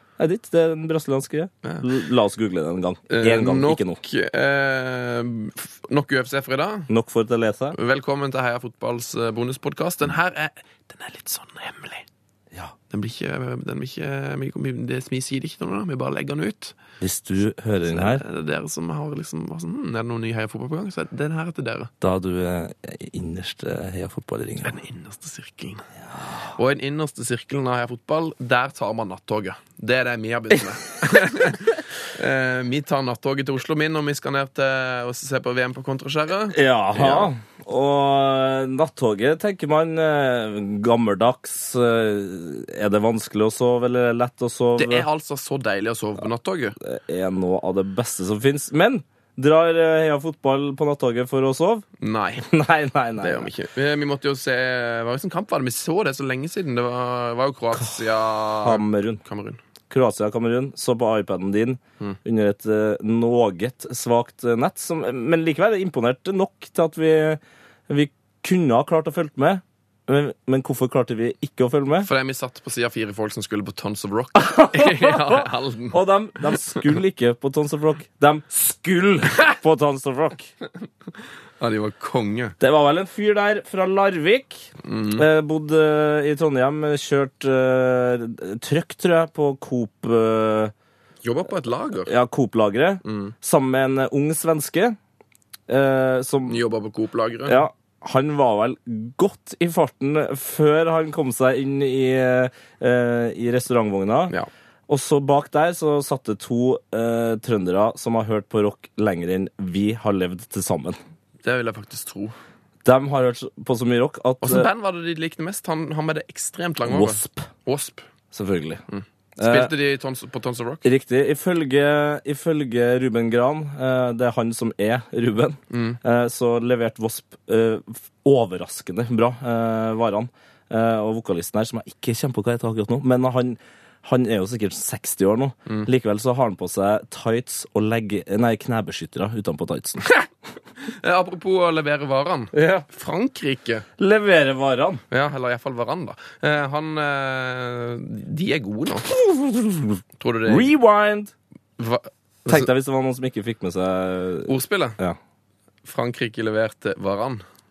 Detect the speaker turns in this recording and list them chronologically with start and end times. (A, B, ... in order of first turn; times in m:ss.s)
0:00.2-0:04.0 A
0:03.1-0:06.9 B
0:06.9-0:07.8 A
0:07.7-0:12.0 B
0:12.9-0:16.8 B
0:17.0-0:18.2 A
0:17.8-0:21.9 B
0:22.0-0:24.7 A
0:24.6-0:25.9 B
0:26.5-0:37.3 B
0:36.5-0:45.0 A
0:44.8-0:46.8 B
0:46.8-0:51.8 A
0:52.0-0:52.5 B
0:52.4-0:53.5 A
0:53.2-0:59.6 B
0:58.6-0:59.2 A
0:59.9-1:12.1 A
1:12.0-1:16.0 B
1:14.4-1:20.5 A
1:21.6-1:22.6 B
1:22.6-1:30.7 A
1:24.8-1:25.2 B
1:31.2-1:32.1 B
1:32.0-1:35.0 A
1:33.0-1:33.3 B
1:35.7-1:36.6 A
1:36.5-1:37.6 B
1:37.4-1:44.3 A
1:44.9-1:51.0 A
1:51.4-1:52.4 B
1:52.8-1:54.7 A
1:54.4-1:58.0 B
1:56.8-1:57.5 A
1:58.3-1:58.8 A
1:58.9-2:00.8 B
1:59.4-1:59.7 A
2:00.8-2:20.0 A
2:05.7-2:06.0 B
2:20.8-2:23.8 B
2:22.5-2:22.8 A
2:24.0-2:25.0 A
2:25.1-2:29.1 B
2:29.1-2:31.3 A
2:30.2-2:30.7 B
2:31.8-2:32.7 B
2:32.4-2:35.2 A
2:34.5-2:35.0 B
2:35.8-2:37.4 B